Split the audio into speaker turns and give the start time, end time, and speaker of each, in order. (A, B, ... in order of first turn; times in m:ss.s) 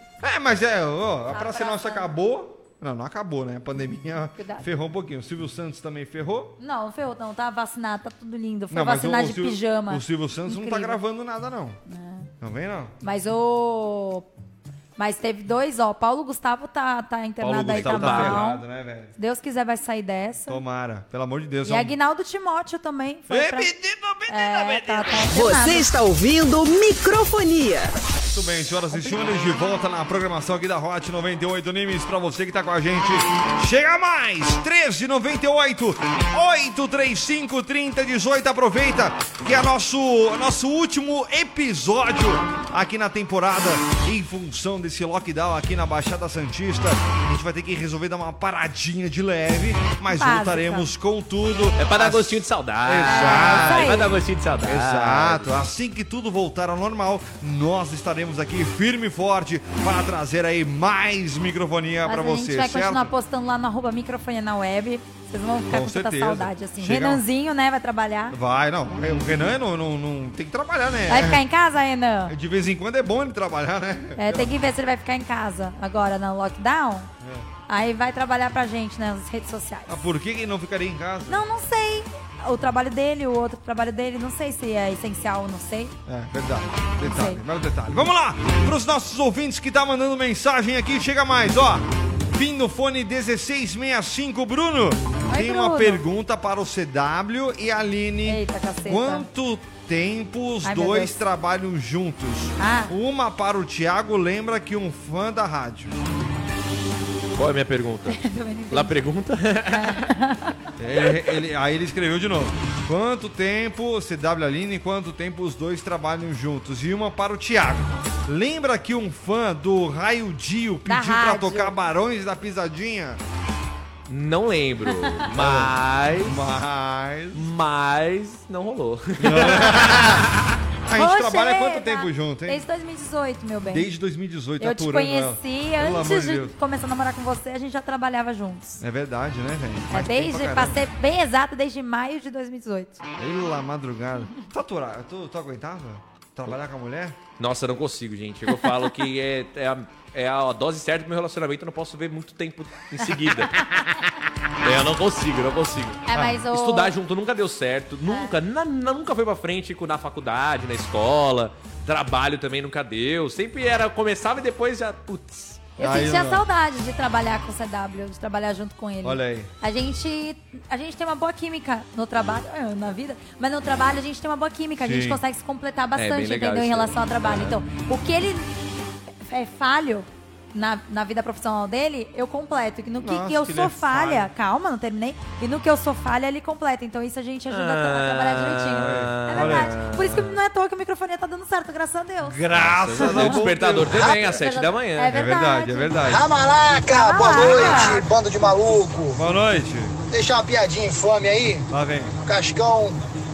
0:00.2-0:06.6 A
0:01.3-0:02.1 B
0:04.4-0:04.6 B
0:06.6-0:11.0 B
0:08.7-0:11.8 A
0:11.9-0:12.3 B
0:12.4-0:12.9 A
0:13.0-0:14.2 B
0:15.0-0:18.6 B
0:17.4-0:19.1 A
0:17.7-0:18.4 C
0:19.2-0:20.6 B
0:20.5-0:21.9 A
0:21.6-0:23.7 B
0:23.3-0:25.4 A
0:24.3-0:25.9 B
0:25.3-0:27.9 D
0:28.3-0:54.0 A
0:28.9-0:29.2 B
0:50.1-0:50.9 B
0:51.8-0:55.5 C
0:53.0-0:54.1 B
0:54.6-1:03.1 A
1:02.0-1:08.4 B
1:05.7-1:07.2 A
1:08.3-1:11.4 A
1:11.1-1:12.3 B
1:12.3-1:14.5 A
1:14.2-1:17.1 B
1:17.2-1:17.5 A
1:17.7-1:20.0 B
1:19.9-1:21.4 A
1:21.3-1:25.9 B
1:26.1-1:46.0 A
1:27.0-1:27.4 B
1:35.3-1:36.0 B
1:38.2-1:39.3 B
1:40.6-1:41.2 B
1:42.6-1:42.9 B
1:47.3-1:50.1 C
1:48.1-1:49.0 B
1:49.7-1:50.5 B
1:50.8-2:03.2 A
2:00.8-2:01.8 B
2:04.1-2:06.4 C
2:05.3-2:07.5 A
2:07.3-2:10.4 C
2:09.2-2:10.3 A
2:10.8-2:12.6 A
2:10.9-2:13.9 B
2:13.7-2:16.5 A
2:14.6-2:18.8 B
2:18.8-2:20.8 A
2:19.9-2:23.0 B
2:23.2-2:27.2 A
2:27.4-2:33.8 C
2:34.6-2:45.7 C
2:36.1-2:36.9 B
2:36.1-2:36.4 A
2:38.1-2:38.3 B
2:45.8-2:46.4 A
2:45.8-2:58.5 B
2:49.0-2:49.5 A
2:54.8-2:55.2 A
2:55.9-2:57.5 C
2:59.2-3:13.4 B
3:03.0-3:04.3 A
3:07.5-3:10.3 C
3:08.8-3:09.8 A
3:12.2-3:14.2 A
3:12.6-3:15.1 C
3:14.0-3:16.1 B
3:15.1-3:16.2 A
3:16.0-3:19.2 E
3:16.9-3:18.0 B
3:19.2-3:19.9 A
3:20.1-3:21.7 E
3:21.7-3:22.2 A
3:22.2-3:23.0 E